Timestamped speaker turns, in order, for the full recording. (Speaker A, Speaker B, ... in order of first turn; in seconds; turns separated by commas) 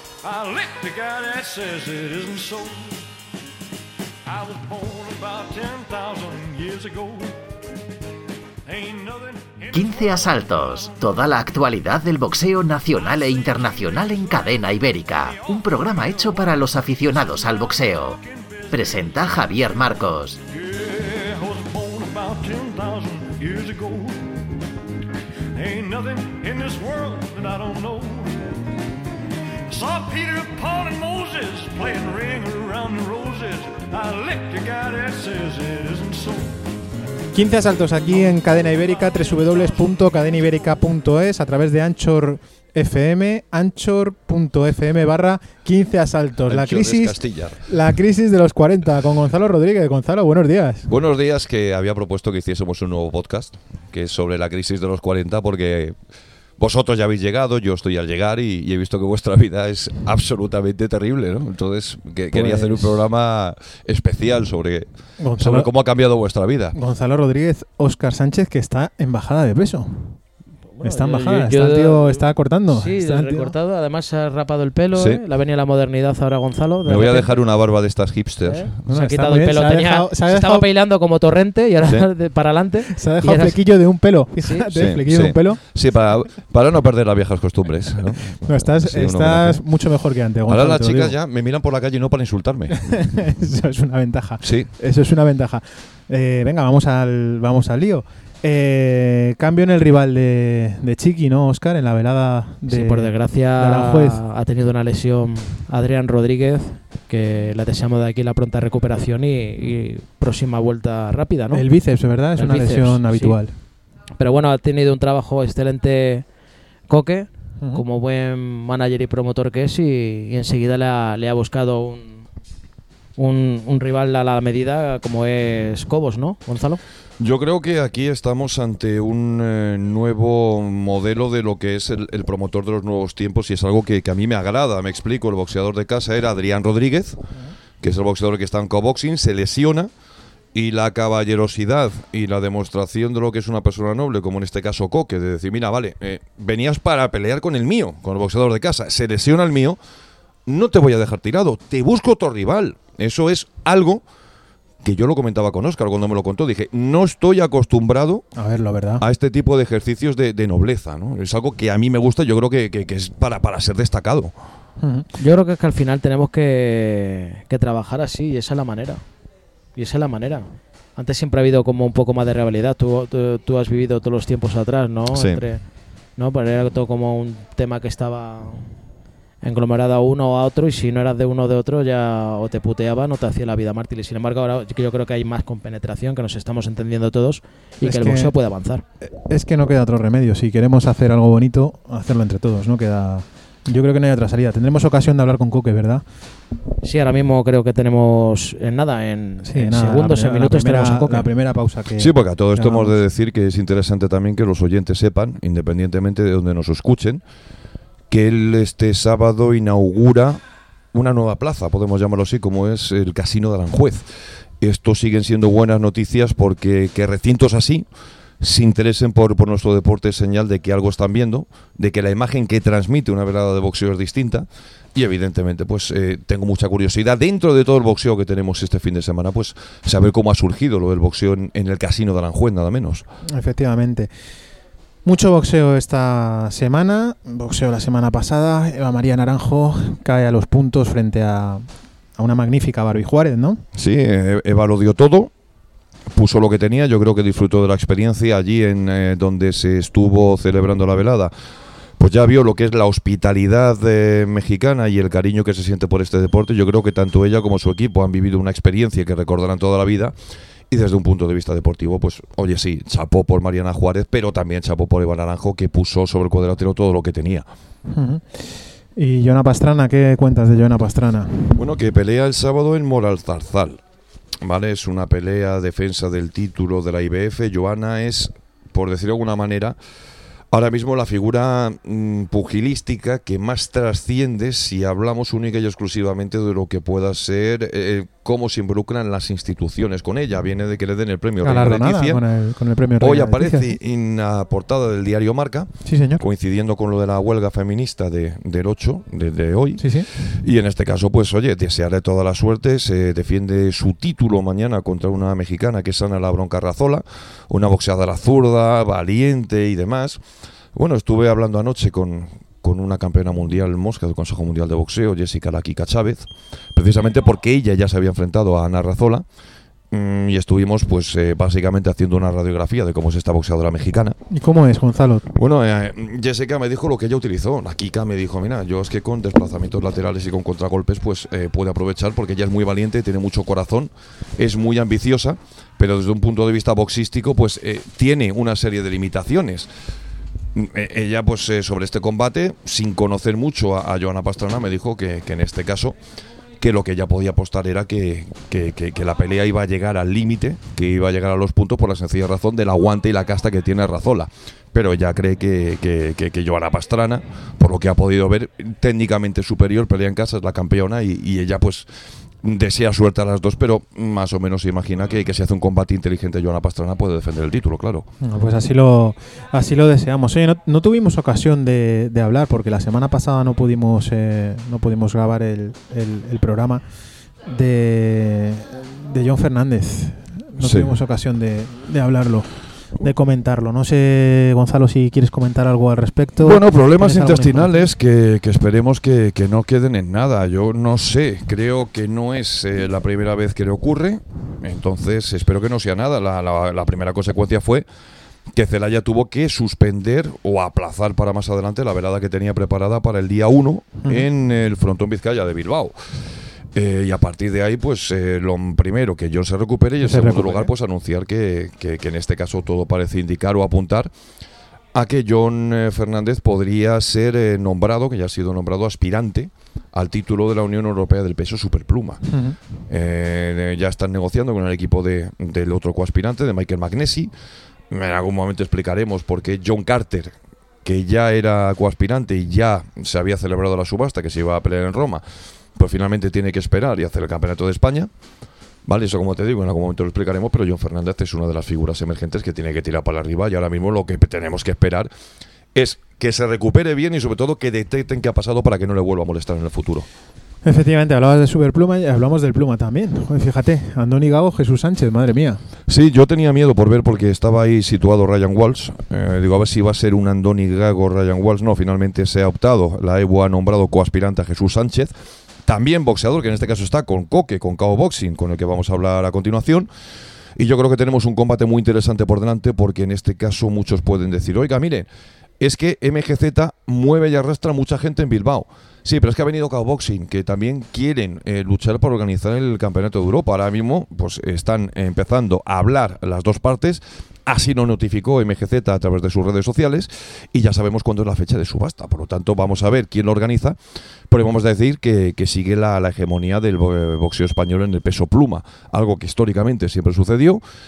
Speaker A: 0.2-3.0, Speaker A: 4.2-7.4, Speaker A: 8.7-11.6, Speaker B: 9.7-18.2, Speaker A: 12.8-19.7, Speaker B: 18.7-20.4, Speaker A: 20.4-24.3, Speaker A: 25.5-28.5, Speaker A: 29.7-36.6, Speaker C: 37.3-50.9, Speaker A: 38.0-40.8, Speaker D: 46.4-47.6, Speaker D: 50.9-56.0, Speaker D: 56.6-64.9, Speaker C: 62.3-63.0, Speaker C: 65.2-65.7, Speaker D: 65.4-66.8, Speaker C: 66.7-70.2, Speaker E: 70.7-77.3, Speaker C: 70.8-73.5, Speaker D: 74.9-75.2, Speaker D: 76.8-78.7, Speaker E: 78.5-83.8, Speaker C: 78.8-80.7, Speaker C: 82.9-85.6, Speaker E: 84.4-84.7, Speaker D: 84.8-89.6, Speaker C: 88.4-91.1, Speaker D: 90.5-92.8, Speaker C: 92.9-104.2, Speaker D: 94.4-94.7, Speaker E: 102.7-111.7, Speaker C: 111.5-113.5, Speaker E: 112.3-113.4, Speaker E: 114.2-116.2, Speaker E: 116.9-122.2, Speaker E: 123.2-126.8, Speaker D: 127.2-137.2, Speaker D: 137.8-139.9, Speaker D: 140.5-149.8, Speaker D: 150.4-154.0, Speaker D: 154.8-158.2, Speaker C: 158.3-159.0, Speaker D: 159.0-164.3, Speaker C: 164.8-165.1, Speaker E: 165.2-169.0, Speaker E: 169.7-178.7, Speaker D: 175.1-175.4, Speaker E: 179.4-188.8, Speaker C: 187.8-188.3, Speaker C: 189.1-196.0, Speaker E: 196.8-201.3, Speaker C: 199.4-203.0, Speaker D: 202.0-207.2, Speaker D: 208.1-214.1, Speaker D: 214.6-217.8, Speaker D: 218.4-233.0, Speaker C: 233.3-234.1, Speaker C: 235.0-243.6, Speaker D: 243.7-245.3, Speaker D: 246.1-251.3, Speaker D: 252.0-260.1, Speaker D: 260.7-267.5, Speaker C: 267.9-271.6, Speaker D: 271.6-273.8, Speaker D: 274.4-279.8, Speaker D: 280.5-292.2, Speaker C: 291.4-293.7, Speaker D: 293.0-310.2, Speaker C: 295.8-296.2, Speaker C: 299.8-300.1, Speaker D: 310.7-319.2, Speaker D: 319.9-324.1, Speaker C: 324.3-325.2, Speaker D: 325.3-339.7, Speaker D: 340.5-345.9, Speaker D: 346.6-361.9, Speaker D: 362.4-368.1, Speaker C: 368.2-376.8, Speaker C: 377.4-387.8, Speaker D: 380.6-380.9, Speaker D: 386.4-397.9, Speaker D: 398.5-405.9, Speaker D: 406.7-414.1, Speaker C: 410.0-410.7, Speaker D: 414.9-422.2, Speaker C: 422.3-422.6, Speaker D: 422.9-427.3, Speaker D: 427.9-435.2, Speaker D: 435.7-438.1, Speaker D: 438.8-445.1, Speaker D: 445.7-450.1, Speaker C: 450.6-455.6, Speaker D: 455.9-465.1, Speaker D: 465.6-469.9, Speaker D: 470.6-475.1, Speaker D: 475.6-493.8, Speaker D: 494.3-500.6